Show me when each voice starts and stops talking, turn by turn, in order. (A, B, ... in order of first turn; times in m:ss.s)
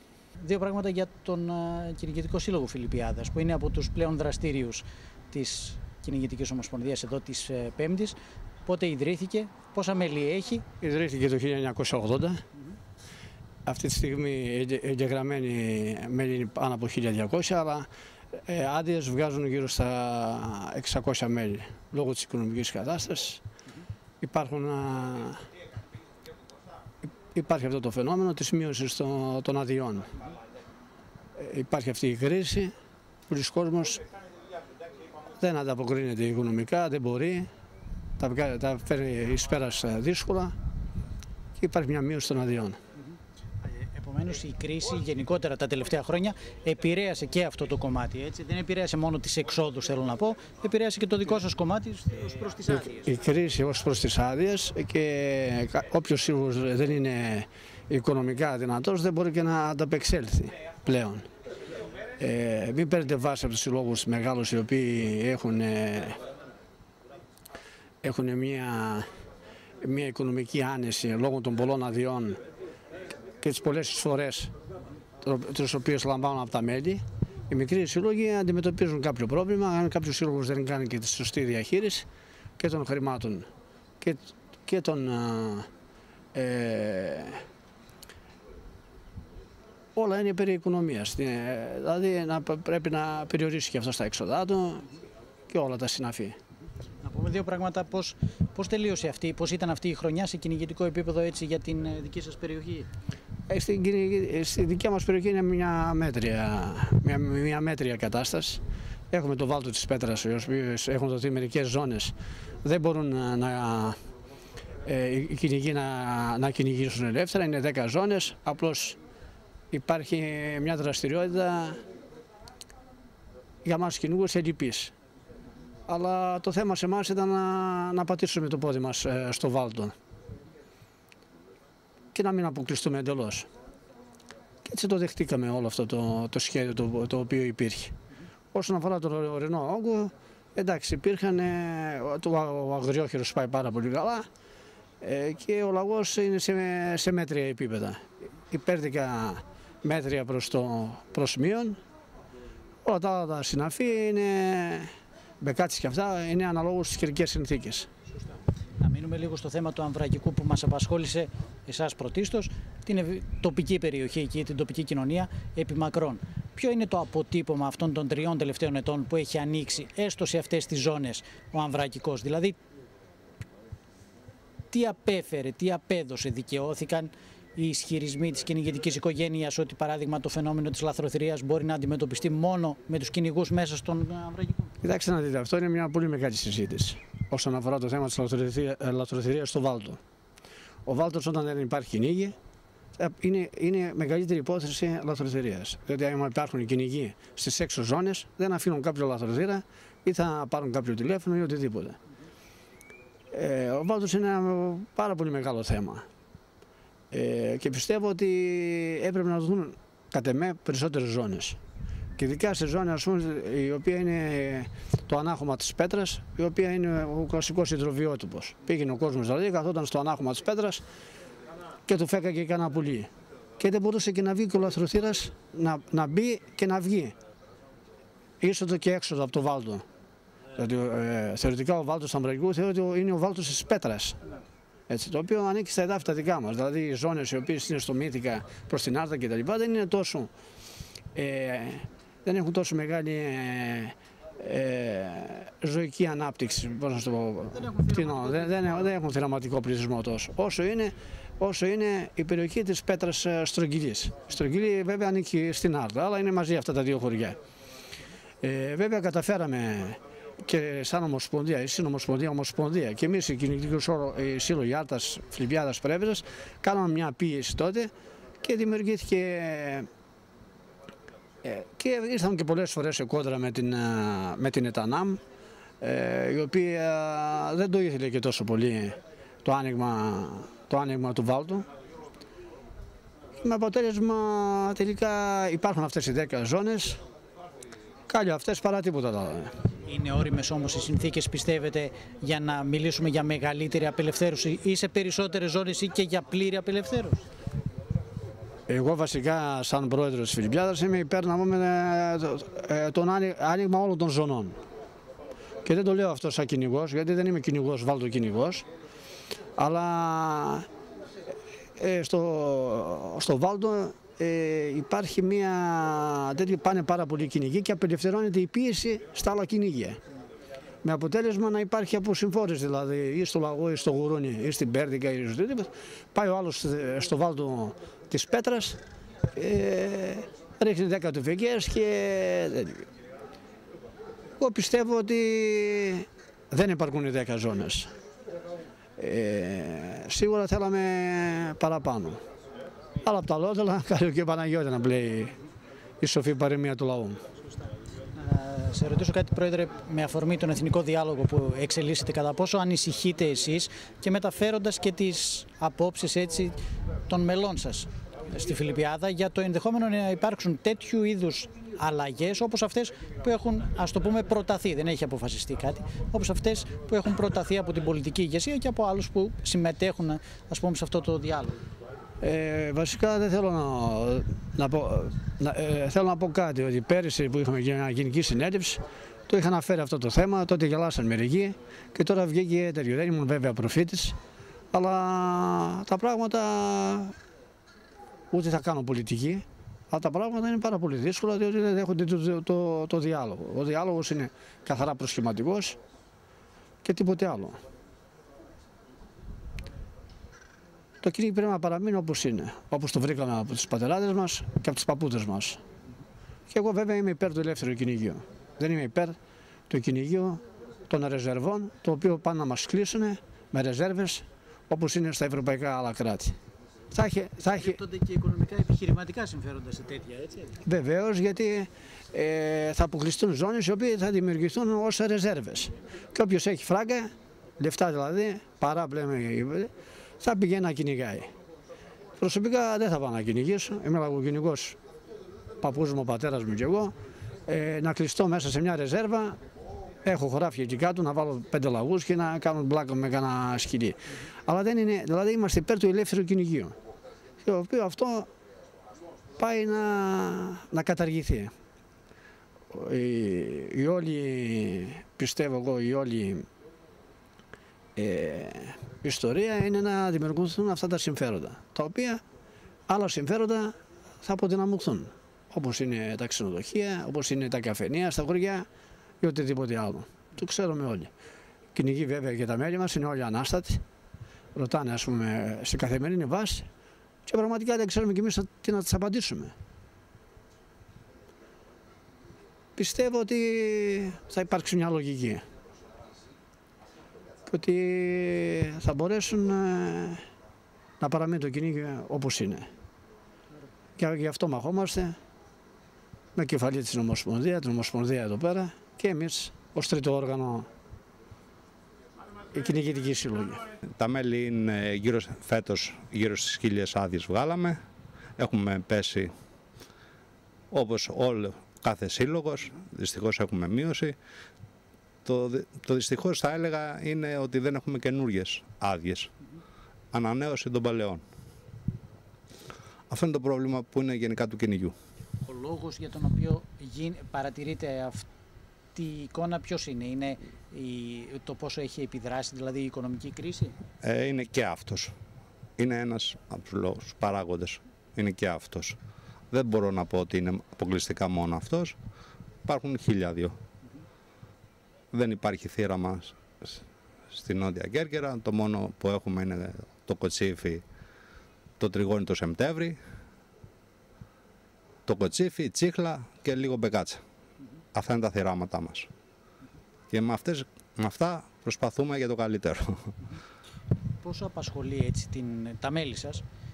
0:00.4-0:10.6 A
0:10.8-0:12.4 B
0:13.6-0:17.9 B
0:18.4-0:23.4 B
0:24.2-0:25.4 B
0:27.3-0:30.1 B
0:31.4-0:32.7 B
0:33.3-0:34.0 B
0:35.4-0:37.5 B
0:38.2-0:40.5 B
0:41.6-0:42.8 B
0:43.6-0:53.1 A
0:52.7-1:01.3 B
1:02.2-1:06.2 B
1:08.0-1:09.0 B
1:09.8-1:12.4 B
1:13.4-1:14.5 B
1:15.2-1:22.1 B
1:22.6-1:23.5 B
1:24.0-1:25.7 B
1:26.3-1:27.4 B
1:29.9-1:34.9 B
1:35.5-1:36.4 B
1:37.0-1:42.9 A
1:43.5-1:54.0 B
1:54.8-1:59.0 B
1:59.7-2:01.8 B
2:03.6-2:04.9 B
2:05.9-2:09.9 B
2:12.1-2:13.5 B
2:14.6-2:17.9 B
2:18.5-2:24.3 B
2:25.0-2:31.8 B
2:32.8-2:34.9 B
2:35.4-2:37.9 B
2:38.8-2:52.6 A
2:54.7-3:04.7 A
3:04.8-3:10.0 B
3:10.8-3:12.4 B
3:13.0-3:22.0 B
3:23.3-3:26.1 B
3:27.1-3:31.6 B
3:32.2-3:40.8 B
3:41.8-3:47.1 B
3:48.4-3:49.8 B
3:50.5-3:54.2 B
3:54.9-4:00.3 B
4:01.1-4:17.4 B
4:07.5-4:08.9 A
4:18.4-4:29.9 B
4:31.4-4:35.2 B
4:35.8-4:41.7 B
4:43.4-4:47.0 B
4:48.1-4:49.5 B
4:49.8-4:57.2 A
4:58.7-5:04.6 B
5:05.6-5:08.6 B
5:09.6-5:10.6 B
5:11.8-5:20.0 B
5:20.8-5:28.8 B
5:29.3-5:32.9 B
5:34.4-5:37.9 B
5:39.0-5:42.2 B
5:43.0-5:45.3 B
5:46.0-5:47.2 B
5:48.2-5:56.6 A
5:57.1-6:11.6 A
6:12.2-6:24.2 B
6:24.7-6:27.1 B
6:28.3-6:35.8 B
6:36.8-6:37.6 B
6:41.0-6:45.6 B
6:46.5-6:49.2 B
6:49.7-6:56.4 B
6:56.9-6:57.8 B
6:57.5-7:00.6 A
7:00.6-7:11.3 B
7:12.2-7:14.8 B
7:15.6-7:16.9 B
7:17.5-7:19.4 B
7:20.0-7:26.8 B
7:27.4-7:28.3 B
7:29.4-7:31.5 B
7:32.7-7:36.5 B
7:38.0-7:42.2 B
7:42.9-7:48.6 B
7:49.2-7:51.1 B
7:51.7-7:53.8 B
7:54.5-7:56.7 B
7:57.2-7:59.5 B
8:02.8-8:05.4 B
8:07.5-8:10.2 B
8:11.0-8:12.7 B
8:14.0-8:15.2 B
8:16.3-8:20.7 B
8:22.5-8:23.6 B
8:23.9-8:27.8 C
8:28.4-8:29.3 C
8:30.7-8:34.2 C
8:35.2-8:39.3 C
8:40.1-8:41.2 C
8:43.1-8:44.9 C
8:45.4-8:48.2 A
8:48.9-8:53.8 A
8:54.0-8:55.1 C
8:55.8-8:59.0 C
8:59.5-9:02.0 C
9:02.6-9:03.6 C
9:05.1-9:10.8 C
9:11.8-9:13.0 C
9:15.0-9:17.2 C
9:17.9-9:19.1 C
9:20.1-9:23.2 C
9:24.2-9:26.4 A